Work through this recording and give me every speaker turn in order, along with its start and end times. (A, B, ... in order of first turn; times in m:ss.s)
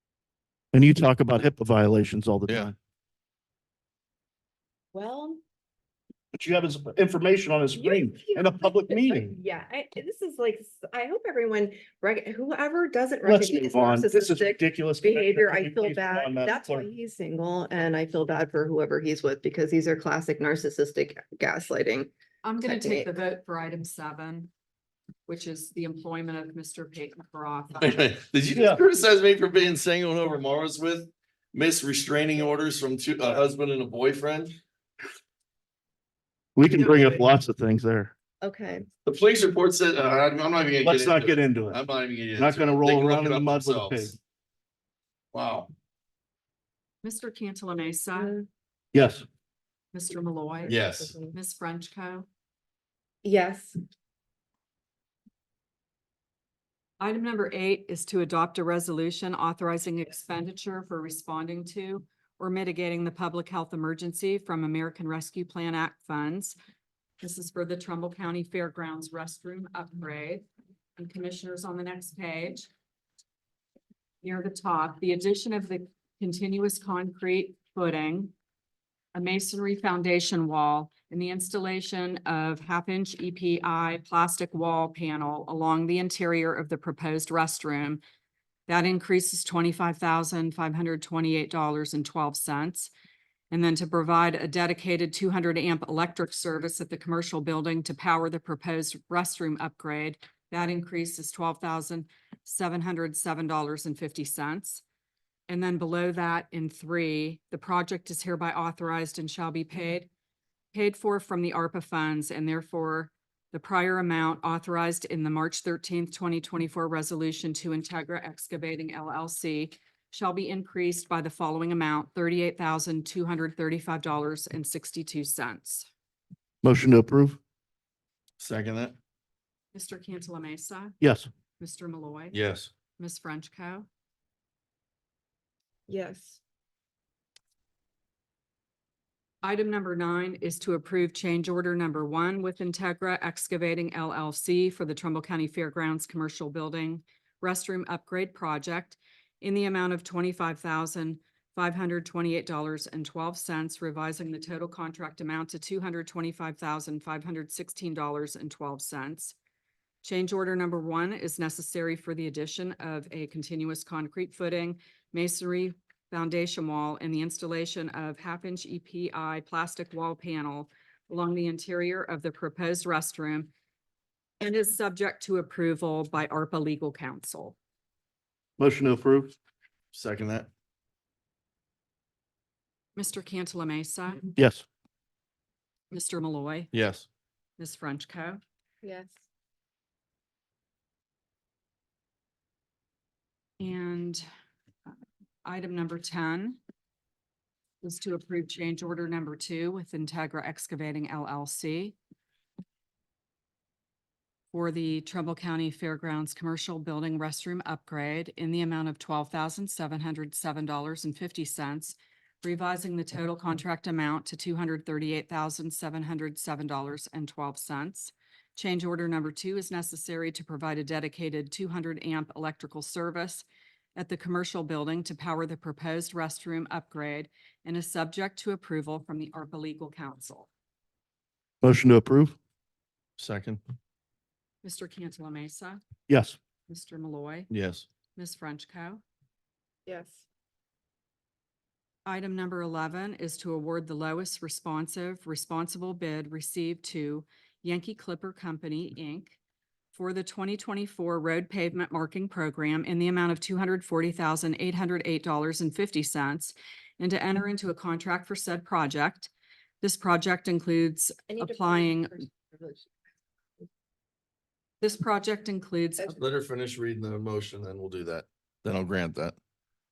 0:00.7-0:02.7 A
0:04.9-0:05.4 B
0:06.3-0:09.3 A
0:07.7-0:22.1 B
0:13.2-0:16.9 A
0:22.4-0:24.5 C
0:22.6-0:23.1 B
0:25.3-0:28.1 C
0:27.8-0:34.6 D
0:36.6-0:38.1 A
0:36.7-0:37.3 B
0:38.4-0:38.8 B
0:39.0-0:44.1 D
0:40.8-0:41.8 A
0:42.4-0:44.2 A
0:45.3-0:45.7 D
0:47.0-0:48.4 C
0:48.1-0:48.4 B
0:48.9-0:49.2 A
0:49.9-0:52.3 C
0:50.7-0:51.1 D
0:50.7-0:51.3 B
0:53.2-0:53.8 B
0:57.0-1:06.5 C
1:07.2-1:10.4 C
1:11.0-1:12.7 C
1:14.2-1:18.3 C
1:19.1-1:28.0 C
1:28.7-1:32.9 C
1:33.5-1:44.8 C
1:45.5-1:50.1 C
1:50.7-2:05.9 C
2:06.6-2:07.4 A
2:08.4-2:08.9 D
2:09.7-2:10.9 C
2:11.0-2:11.3 A
2:11.6-2:12.4 C
2:12.3-2:12.7 D
2:13.0-2:13.9 C
2:15.9-2:16.4 B
2:19.4-2:39.3 C
2:40.0-2:53.5 C
2:54.4-2:57.6 C
2:58.6-2:59.3 A
2:59.9-3:00.5 D
3:03.0-3:04.2 C
3:04.4-3:04.6 A
3:05.9-3:06.7 C
3:06.7-3:07.0 D
3:07.6-3:08.4 C
3:08.8-3:09.2 B
3:13.6-3:14.2 C
3:15.4-3:16.6 C
3:17.8-3:22.0 C
3:24.5-3:43.4 C
3:44.0-3:50.5 C
3:51.6-3:52.4 A
3:53.2-3:53.6 D
3:54.6-3:55.8 C
3:56.1-3:56.4 A
3:56.7-3:57.5 C
3:57.5-3:57.8 D
3:58.2-3:59.0 C
3:59.9-4:00.2 B
4:02.0-4:09.4 C
4:09.9-4:19.3 C
4:19.8-4:22.2 C
4:21.3-4:22.9 B
4:24.8-4:26.2 C
4:26.2-4:29.3 D